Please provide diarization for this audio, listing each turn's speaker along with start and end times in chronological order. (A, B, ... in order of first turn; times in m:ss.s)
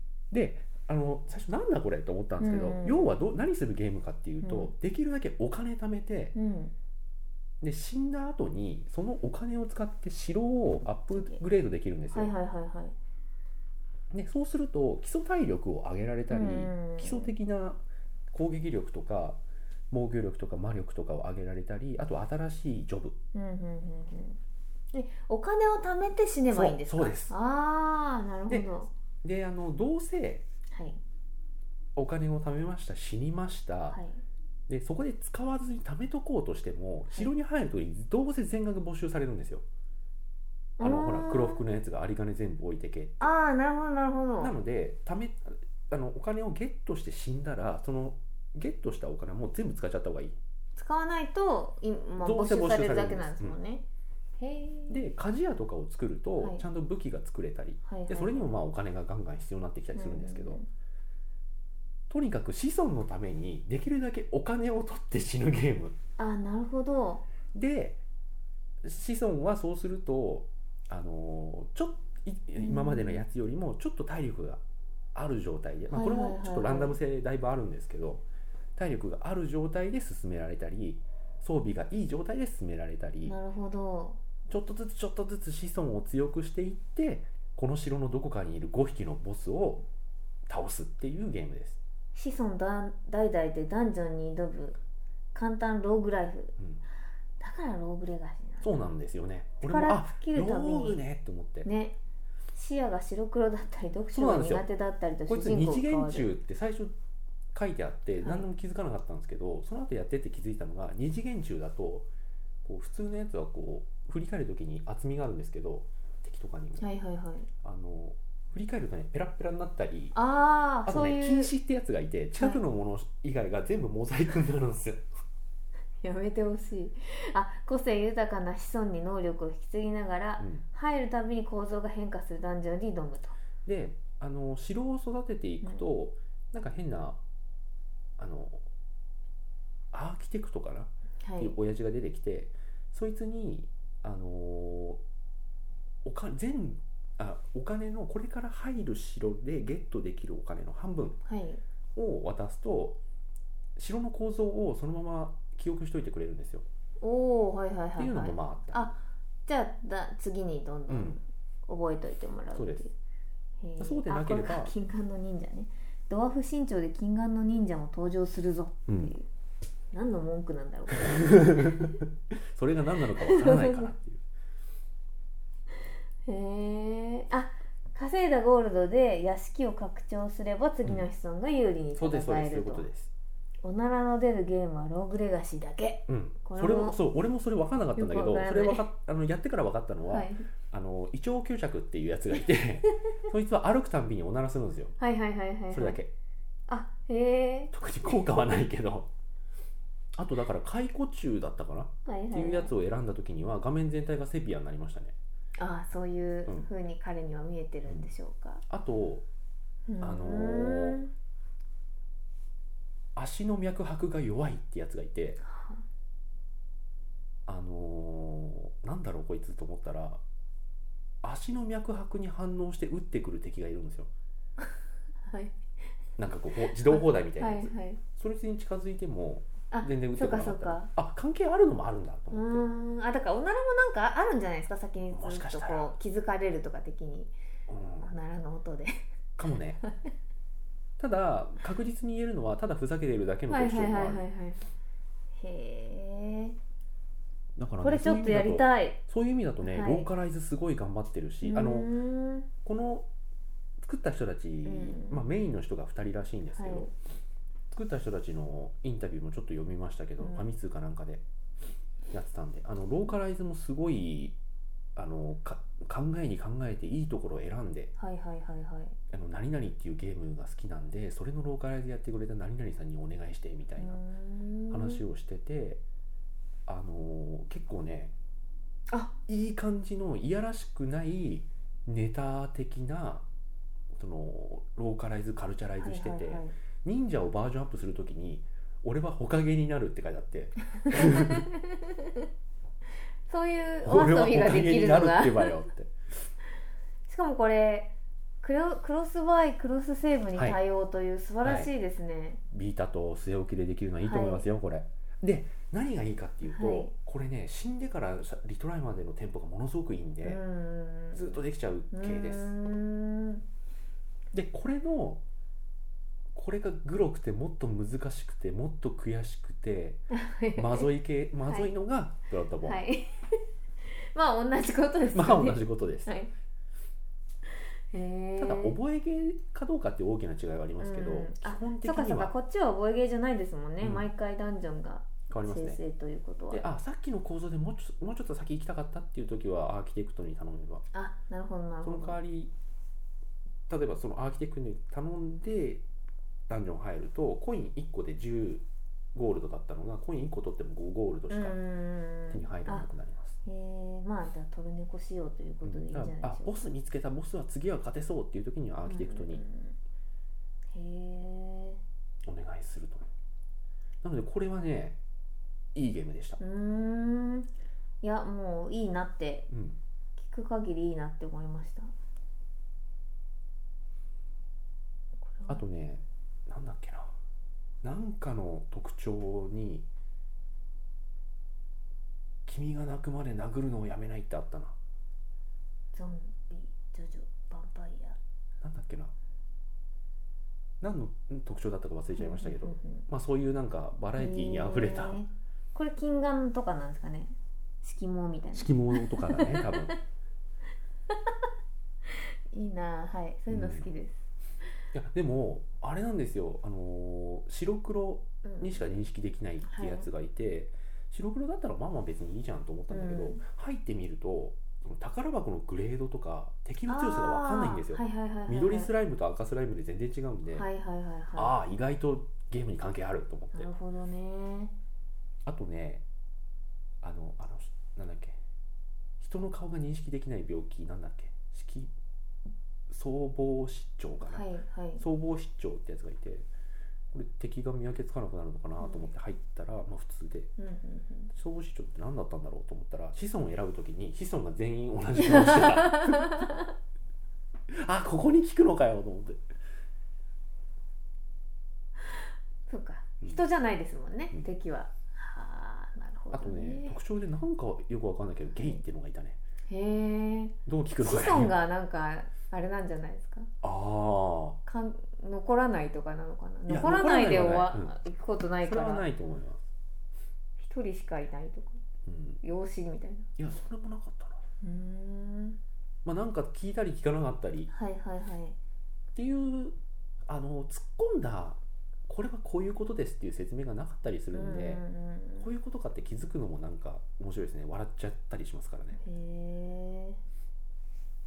0:00.3-0:06.3 A
0:02.4-0:03.3 B
0:04.4-0:04.7 B
0:06.3-0:06.7 B
0:07.6-0:12.3 A
0:11.1-0:11.4 B
0:12.1-0:12.9 B
0:14.1-0:23.2 A
0:16.3-0:17.3 B
0:23.3-0:24.4 B
0:24.9-0:28.9 B
0:26.5-0:27.3 A
0:29.2-0:30.4 A
0:30.7-0:31.0 B
0:31.9-0:34.0 A
0:33.9-0:34.2 B
0:34.7-0:39.6 A
0:40.8-0:41.6 B
0:40.8-0:43.3 A
0:43.2-0:44.5 B
0:44.4-0:50.4 A
0:50.8-0:53.8 B
0:52.2-0:53.6 A
0:54.4-0:55.0 B
0:54.9-1:00.6 A
0:56.4-0:56.6 B
0:57.8-0:58.6 B
0:59.9-1:00.7 B
1:02.1-1:05.9 A
1:06.2-1:07.2 B
1:07.5-1:08.0 A
1:08.8-1:14.6 A
1:12.6-1:13.2 B
1:15.1-1:18.2 A
1:15.9-1:17.0 B
1:18.8-1:23.4 A
1:23.2-1:24.2 B
1:24.5-1:29.8 A
1:30.5-1:31.8 A
1:32.1-1:34.8 B
1:35.3-1:36.6 B
1:37.4-1:38.7 B
1:38.6-1:41.7 A
1:39.6-1:41.0 B
1:41.6-1:41.9 B
1:42.5-1:46.3 B
1:44.1-1:44.6 A
1:45.3-1:46.9 A
1:47.5-1:52.1 A
1:48.2-1:48.5 B
1:52.6-1:56.9 A
1:56.8-1:57.5 B
1:57.6-2:00.1 A
2:00.1-2:01.5 B
2:00.8-2:05.0 A
2:06.0-2:13.4 B
2:10.4-2:10.6 A
2:13.6-2:17.2 A
2:18.2-2:18.6 A
2:19.9-2:25.0 A
2:21.2-2:21.5 B
2:26.0-2:31.2 A
2:31.2-2:31.6 B
2:31.9-2:33.0 A
2:33.8-2:36.6 A
2:37.0-2:42.9 B
2:38.0-2:38.9 A
2:40.9-2:41.2 A
2:42.5-2:42.8 A
2:43.6-2:49.3 B
2:43.8-2:44.7 A
2:48.9-2:49.1 A
2:49.9-2:52.0 B
2:50.9-2:54.2 A
2:53.2-2:53.9 B
2:56.2-3:02.9 B
3:02.0-3:03.1 A
3:03.6-3:07.0 B
3:06.1-3:15.0 A
3:08.0-3:08.9 B
3:10.1-3:10.5 B
3:15.0-3:16.0 B
3:15.7-3:16.1 A
3:16.7-3:18.2 B
3:17.7-3:19.1 A
3:20.1-3:25.2 A
3:22.0-3:22.7 B
3:25.6-3:28.6 B
3:28.7-3:29.2 A
3:29.9-3:31.1 B
3:30.0-3:31.0 A
3:33.1-3:35.4 A
3:35.4-3:35.8 B
3:37.5-3:40.2 A
3:41.2-3:44.1 A
3:45.2-3:45.6 B
3:46.2-3:52.7 A
3:46.7-3:48.0 B
3:49.7-3:50.9 B
3:52.3-3:57.3 B
3:55.1-3:55.9 A
3:57.7-3:58.1 A
3:58.0-3:59.1 B
3:59.4-3:59.8 A
3:59.8-4:00.1 B
4:01.0-4:04.2 A
4:03.5-4:04.7 B
4:05.4-4:06.6 B
4:07.6-4:11.9 A
4:07.7-4:09.0 B
4:09.6-4:10.1 B
4:11.4-4:12.5 B
4:12.6-4:13.1 A
4:13.8-4:16.9 A
4:14.6-4:15.2 B
4:16.5-4:16.9 B
4:17.7-4:21.2 A
4:20.2-4:20.5 B
4:22.1-4:24.4 A
4:25.0-4:27.9 A
4:28.0-4:29.0 B
4:29.1-4:34.0 A
4:33.8-4:35.0 B
4:34.7-4:35.8 A
4:36.6-4:38.1 A
4:39.3-4:43.2 A
4:43.9-4:51.5 A
4:45.8-4:46.5 B
4:50.7-4:52.2 B
4:53.3-4:55.6 B
4:53.8-4:55.9 A
4:57.1-5:02.4 B
5:01.4-5:01.7 A
5:02.5-5:10.4 A
5:04.0-5:04.5 B
5:06.4-5:06.9 B
5:10.2-5:11.4 B
5:11.1-5:12.5 A
5:11.9-5:13.4 B
5:14.3-5:15.2 A
5:16.3-5:20.0 A
5:20.1-5:20.9 B
5:20.5-5:22.8 A
5:22.6-5:26.3 B
5:25.1-5:26.1 A
5:27.9-5:28.8 B
5:28.4-5:32.3 A
5:30.8-5:36.6 B
5:33.8-5:34.1 A
5:35.3-5:35.8 A
5:36.5-5:40.8 A
5:40.9-5:42.2 B
5:41.8-5:42.5 A
5:43.7-5:45.8 A
5:46.5-5:51.6 A
5:51.3-5:52.9 B
5:52.3-5:53.4 A
5:53.4-5:56.6 B
5:55.6-5:59.4 A
5:58.8-5:59.8 B
6:00.7-6:01.8 B
6:02.2-6:03.1 A
6:04.0-6:05.0 A
6:05.7-6:06.4 A
6:06.4-6:07.5 B
6:08.0-6:09.5 B
6:09.5-6:09.8 A
6:10.2-6:11.9 B
6:15.2-6:15.6 B
6:15.5-6:17.1 A
6:17.8-6:19.9 A
6:22.4-6:24.8 A
6:25.9-6:28.2 B
6:28.6-6:29.1 A
6:30.8-6:35.2 A
6:32.2-6:33.0 B
6:34.2-6:40.0 B
6:38.5-6:40.0 A
6:42.1-6:44.2 B
6:43.5-6:43.9 A
6:44.9-7:00.7 A
6:48.4-6:48.8 B
6:49.6-6:50.1 B
6:52.9-6:53.4 B
6:56.9-6:58.9 B
7:00.5-7:01.5 B
7:01.3-7:03.7 A
7:03.5-7:04.7 B
7:05.4-7:06.0 A
7:07.0-7:08.4 A
7:09.2-7:11.9 A
7:12.9-7:14.4 A
7:14.2-7:15.0 B
7:15.0-7:16.5 A
7:17.1-7:20.5 A
7:18.8-7:19.1 B
7:20.6-7:21.3 B
7:21.3-7:26.5 A
7:25.2-7:26.7 B
7:27.7-7:29.4 A
7:32.0-7:37.0 B
7:36.3-7:39.4 A
7:39.7-7:43.5 B
7:40.6-7:41.5 A
7:43.6-7:44.6 A
7:44.6-7:49.1 B
7:46.7-7:47.9 A
7:48.6-7:49.6 A
7:50.6-7:51.8 B
7:52.0-7:52.4 A
7:52.4-7:53.3 B
7:53.4-7:54.4 A
7:54.6-7:55.6 B
7:56.0-7:57.7 A
7:57.7-7:58.6 B
7:59.1-7:59.8 A
8:00.3-8:04.8 A
8:04.3-8:05.5 B
8:05.4-8:09.0 A
8:09.0-8:10.2 B